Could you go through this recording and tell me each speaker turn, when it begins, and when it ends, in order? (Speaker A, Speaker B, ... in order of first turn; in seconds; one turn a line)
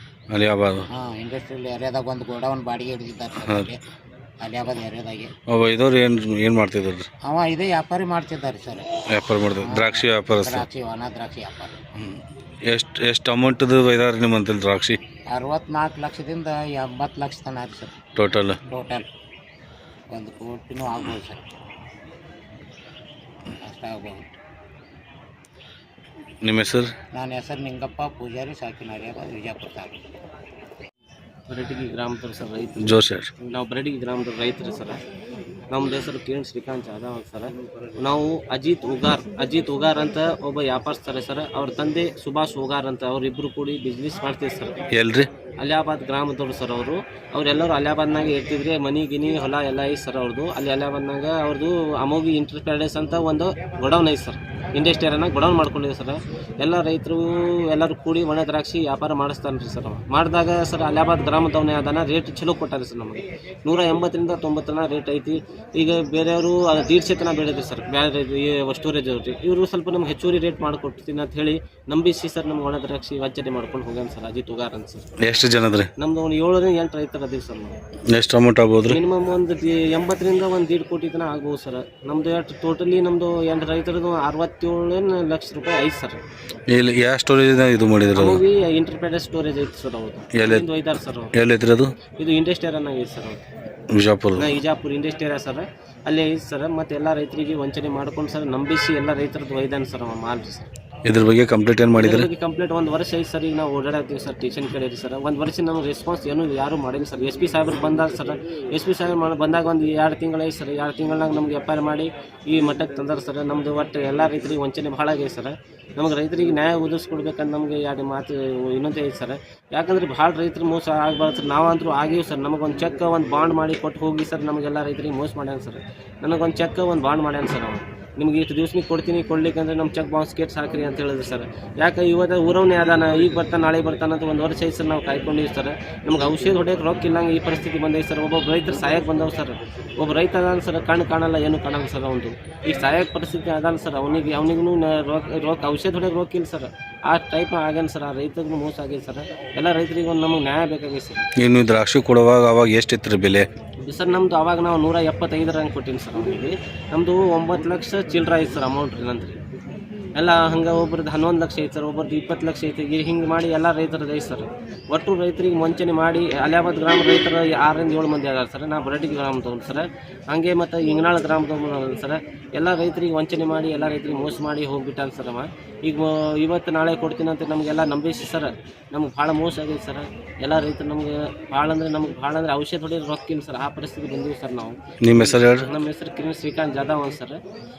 Speaker A: 0.3-0.9
Speaker B: 0.9-3.8
Speaker B: 4.4-5.3
Speaker A: 5.5-7.1
Speaker B: 7.2-8.9
Speaker A: 9.1-10.7
Speaker B: 9.6-11.8
Speaker A: 12.0-15.0
Speaker B: 15.3-17.9
Speaker A: 18.1-18.6
Speaker B: 18.7-19.1
Speaker B: 20.1-21.4
Speaker B: 23.6-24.2
Speaker A: 26.4-26.9
Speaker B: 27.1-30.0
Speaker C: 31.5-35.0
Speaker A: 32.8-33.3
Speaker C: 35.7-44.9
Speaker A: 44.9-45.3
Speaker C: 45.6-75.1
Speaker A: 75.2-75.9
Speaker C: 76.0-77.8
Speaker A: 78.1-79.0
Speaker C: 78.9-86.2
Speaker A: 86.7-88.4
Speaker C: 88.1-91.3
Speaker A: 90.3-90.7
Speaker A: 91.3-91.9
Speaker C: 92.1-93.4
Speaker A: 93.9-94.5
Speaker C: 94.3-100.7
Speaker A: 101.0-102.3
Speaker C: 101.9-151.2
Speaker A: 151.4-153.5
Speaker C: 153.8-159.4
Speaker C: 160.1-187.4
Speaker A: 185.0-185.7